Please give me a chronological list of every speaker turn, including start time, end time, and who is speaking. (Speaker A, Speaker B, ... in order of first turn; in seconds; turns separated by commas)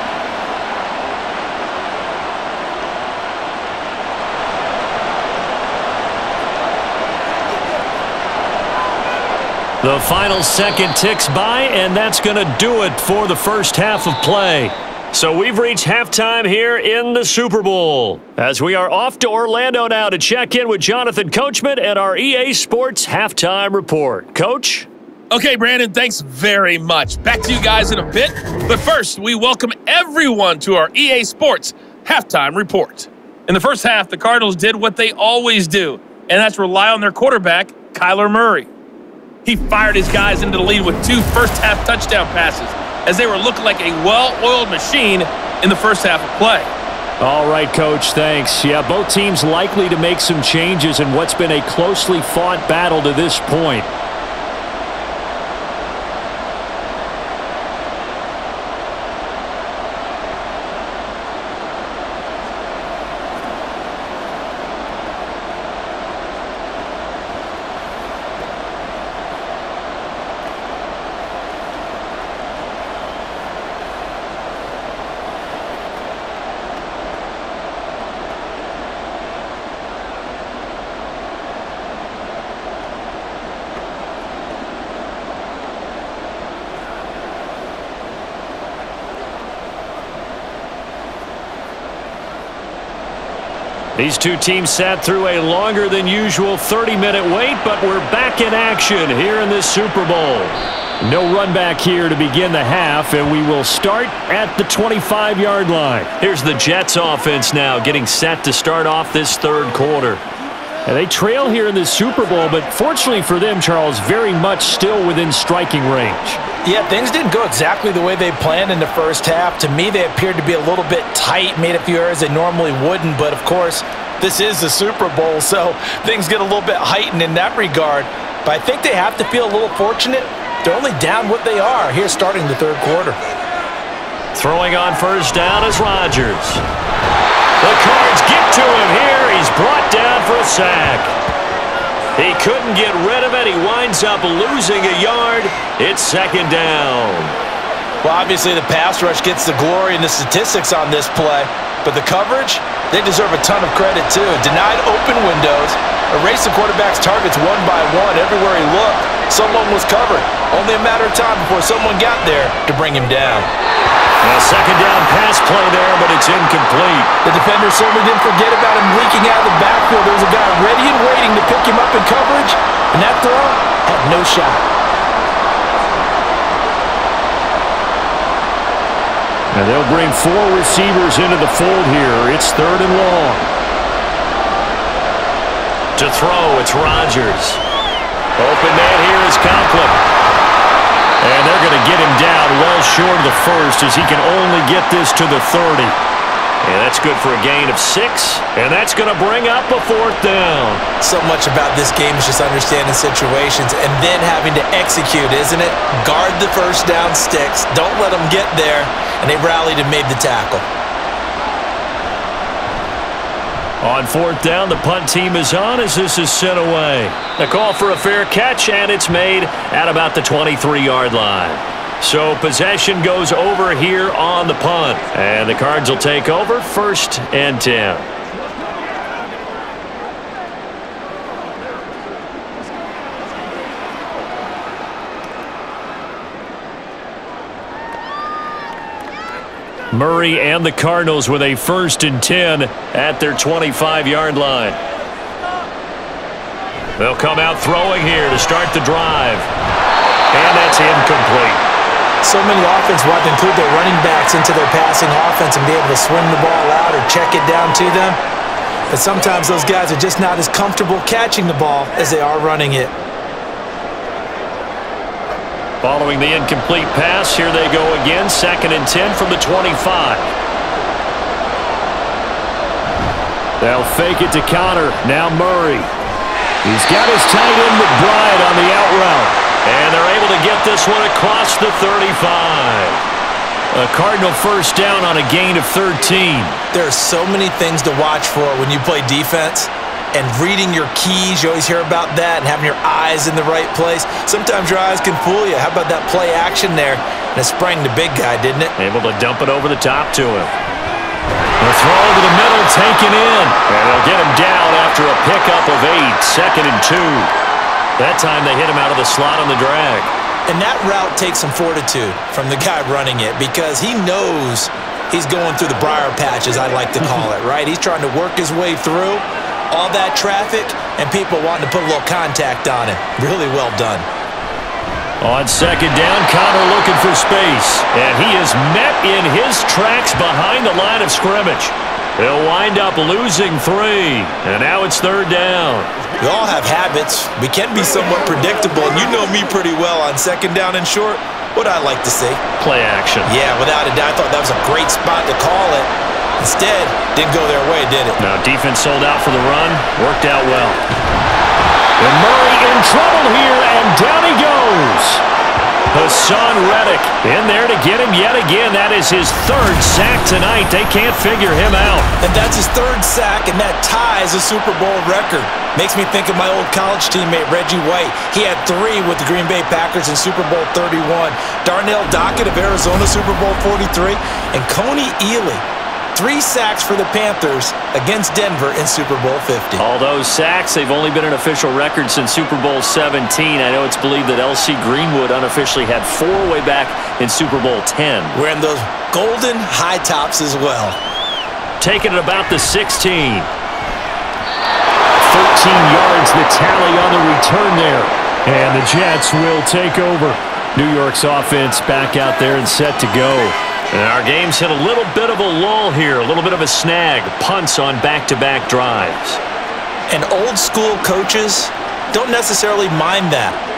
Speaker A: 9.8-24.9, Speaker B: 25.3-38.7, Speaker B: 39.4-46.7, Speaker A: 47.2-53.9, Speaker A: 93.9-110.2, Speaker A: 110.8-116.4, Speaker C: 116.6-133.2, Speaker A: 134.3-136.6, Speaker A: 137.6-141.1, Speaker A: 142.2-147.3, Speaker C: 148.0-163.5, Speaker A: 164.2-167.1, Speaker C: 167.2-174.6, Speaker A: 179.5-183.5, Speaker A: 185.9-187.6, Speaker A: 188.4-190.0, Speaker A: 191.2-196.0, Speaker A: 196.6-200.8, Speaker C: 201.0-210.7, Speaker A: 213.8-228.1, Speaker A: 239.9-244.8, Speaker A: 247.0-249.5, Speaker A: 250.3-251.7, Speaker C: 252.2-258.2, Speaker C: 258.9-262.9, Speaker A: 265.8-270.3, Speaker A: 273.6-275.9, Speaker A: 276.6-283.0, Speaker A: 283.7-286.6, Speaker C: 286.7-298.7, Speaker A: 298.8-300.5, Speaker A: 301.6-307.3, Speaker A: 308.0-310.1, Speaker C: 310.5-324.1, Speaker A: 325.2-335.9, Speaker C: 336.2-342.4, Speaker A: 342.6-343.3, Speaker C: 343.2-348.2, Speaker A: 348.2-350.8, Speaker A: 352.0-355.2, Speaker A: 355.9-362.1, Speaker C: 362.2-379.8, Speaker A: 379.8-388.4, Speaker C: 388.3-391.0, Speaker A: 391.8-393.5, Speaker A: 395.2-409.4, Speaker C: 410.1-413.6